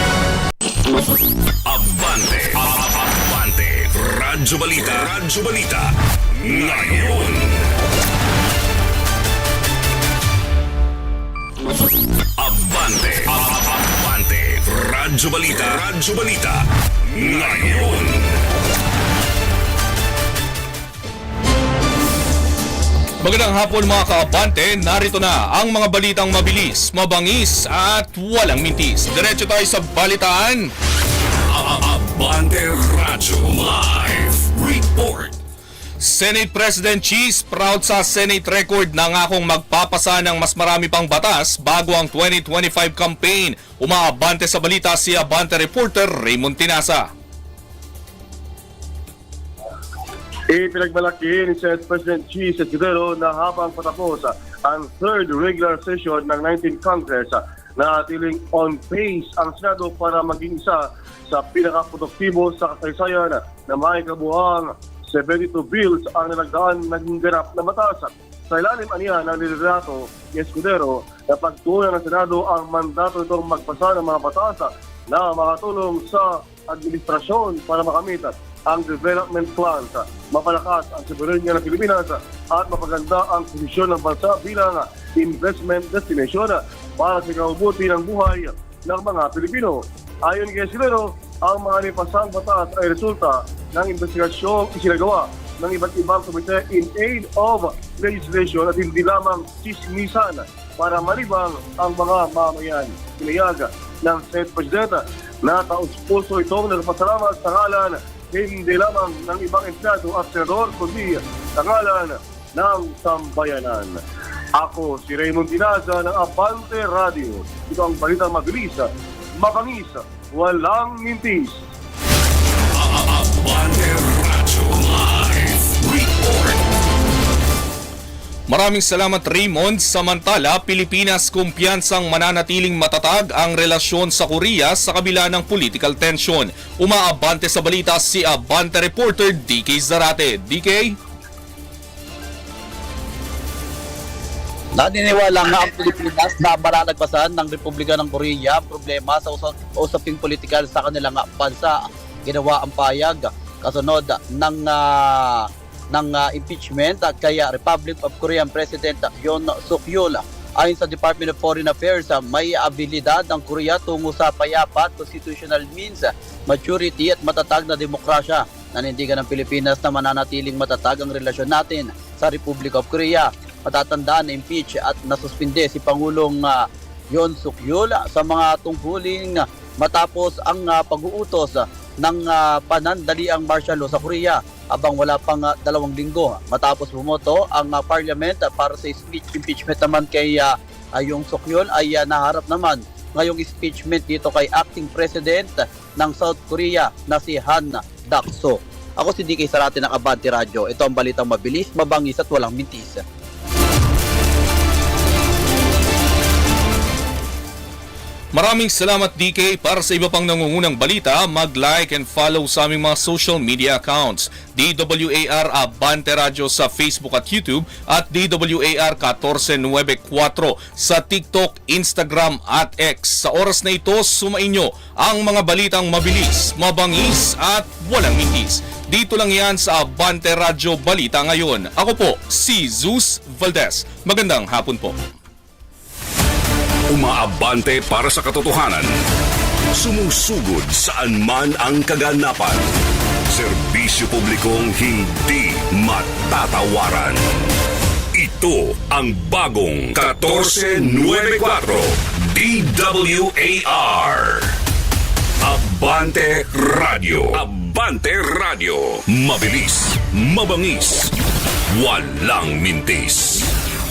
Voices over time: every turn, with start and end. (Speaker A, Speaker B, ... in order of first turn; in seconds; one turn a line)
Speaker A: 1.6-7.6
Speaker A: 12.4-18.3
Speaker B: 23.2-30.7
Speaker A: 31.5-35.4
Speaker B: 36.0-47.1
Speaker C: 50.5-114.0
Speaker C: 114.5-121.6
Speaker A: 122.8-126.6
Speaker B: 128.5-141.0
Speaker D: 144.8-203.0
Speaker B: 208.3-235.0
Speaker A: 236.9-238.9
Speaker A: 239.8-242.7
Speaker A: 243.3-247.4
Speaker A: 248.1-254.6
Speaker A: 255.4-261.1
Speaker A: 261.7-263.5